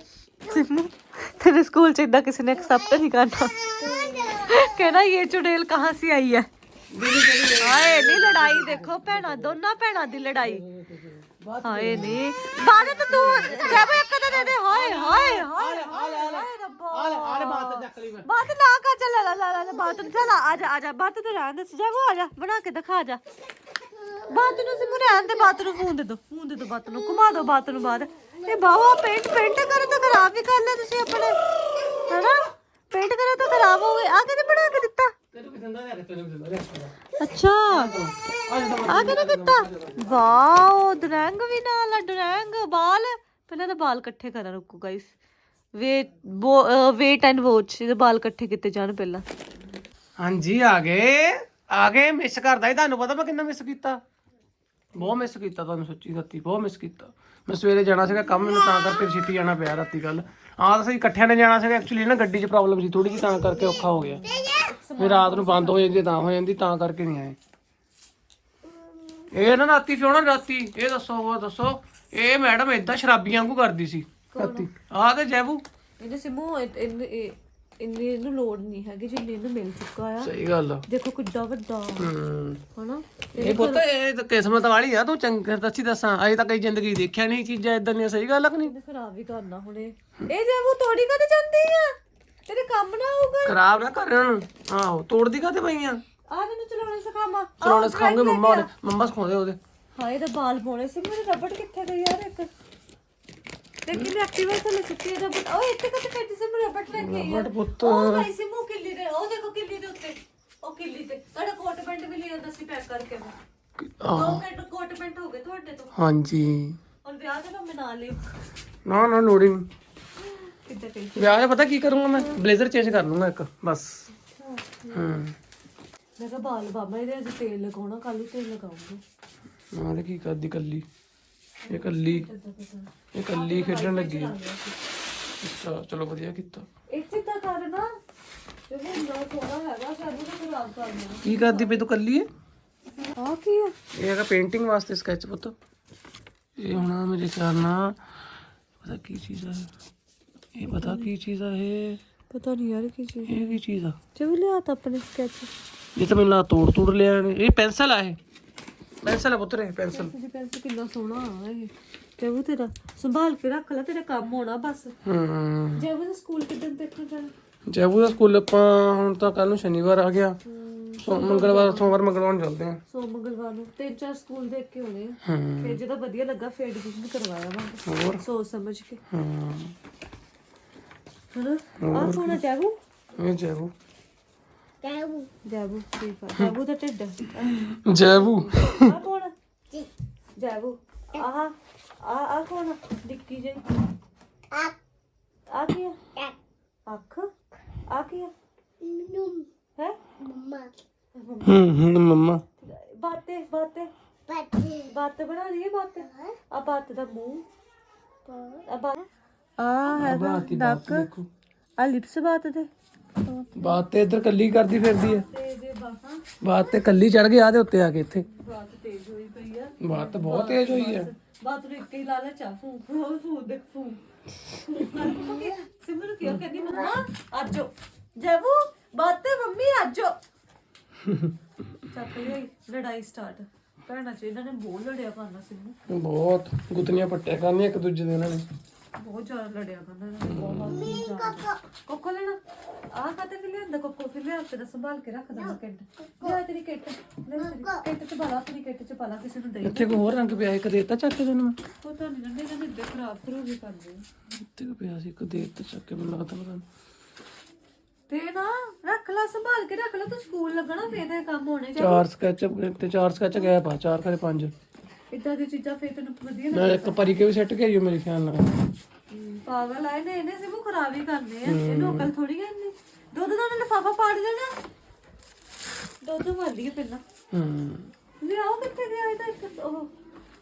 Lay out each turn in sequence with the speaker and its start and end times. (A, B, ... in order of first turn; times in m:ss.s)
0:00.4-0:06.5 A
0:03.9-0:04.5 B
0:06.9-0:09.4 C
0:07.6-0:10.6 A
0:10.5-0:12.2 C
0:11.6-0:23.2 A
0:13.1-0:16.4 C
0:16.9-0:18.2 C
0:24.3-0:31.4 A
0:32.1-0:35.1 A
0:35.3-0:36.9 C
0:37.2-0:38.0 A
0:37.8-0:39.9 C
0:38.8-0:45.2 A
0:45.8-0:49.2 A
0:50.2-0:54.0 C
0:55.0-1:04.3 C
1:04.3-1:06.1 A
1:05.0-1:07.4 C
1:09.3-1:15.6 C
1:14.3-1:14.7 A
1:16.0-1:20.3 A
1:20.2-1:20.8 C
1:20.9-1:22.1 A
1:22.0-1:22.6 C
1:22.8-1:23.8 A
1:23.4-1:28.7 C
1:28.6-1:32.0 A
1:32.5-1:33.6 A
1:33.5-1:36.0 C
1:36.3-1:38.7 A
1:37.7-1:39.6 C
1:40.0-1:42.5 A
1:43.9-1:53.4 A
1:47.0-1:48.3 C
1:53.8-1:54.4 C
1:54.1-1:56.0 A
1:56.0-1:56.8 C
1:57.0-1:58.2 A
1:58.9-1:59.7 C
2:00.5-2:01.4 A
2:01.2-2:04.0 C
2:04.4-2:05.2 A
2:04.9-2:05.4 C
2:06.2-2:09.0 A
2:09.7-2:10.9 C
2:11.6-2:14.8 A
2:11.7-2:12.3 C
2:13.2-2:14.3 C
2:15.4-2:16.7 C
2:16.9-2:17.9 A
2:18.7-2:21.8 A
2:21.2-2:22.3 C
2:23.0-2:23.8 A
2:24.0-2:25.6 C
2:26.6-2:28.0 C
2:28.8-2:29.7 C
2:30.6-2:32.0 C
2:30.6-2:31.1 A
2:32.3-2:33.4 A
2:33.3-2:34.0 C
2:34.2-2:35.5 A
2:36.0-2:38.2 C
2:39.0-2:40.1 C
2:39.9-2:45.0 A
2:45.0-2:45.8 C
2:45.8-2:47.3 A
2:47.7-2:50.4 C
2:50.4-2:52.0 A
2:51.0-2:52.8 C
2:52.9-2:59.0 A
2:55.2-2:55.7 C
2:57.9-2:58.2 C
2:59.1-2:59.8 C
3:01.3-3:02.8 A
3:01.8-3:02.3 C
3:03.2-3:03.7 C
3:04.8-3:05.3 B
3:05.5-3:09.3 A
3:07.7-3:08.9 C
3:10.4-3:13.7 A
3:15.5-3:16.0 A
3:16.9-3:17.3 A
3:17.9-3:18.3 A
3:18.8-3:19.5 B
3:20.2-3:20.7 B
3:21.2-3:21.6 A
3:21.5-3:22.4 C
3:22.6-3:23.9 A
3:24.3-3:24.9 B
3:24.8-3:27.4 A
3:26.1-3:26.4 B
3:28.2-3:28.7 B
3:28.7-3:29.0 A
3:29.6-3:31.1 A
3:30.0-3:31.3 C
3:31.8-3:32.7 A
3:33.2-3:33.8 A
3:33.6-3:35.3 C
3:34.9-3:36.2 A
3:36.4-3:38.3 C
3:38.2-3:44.0 A
3:39.8-3:41.1 C
3:44.5-3:50.2 A
3:51.9-3:55.8 A
3:55.9-3:58.5 C
3:59.0-4:02.4 A
4:00.3-4:00.7 C
4:00.7-4:01.6 B
4:02.9-4:10.0 A
4:07.4-4:07.9 B
4:09.7-4:11.6 C
4:11.8-4:14.0 A
4:14.3-4:16.6 C
4:18.1-4:22.0 A
4:21.8-4:24.5 C
4:25.1-4:27.2 A
4:26.6-4:28.6 C
4:29.1-4:34.6 A
4:31.5-4:32.1 C
4:36.0-4:37.0 A
4:37.3-4:37.9 C
4:38.2-4:39.9 A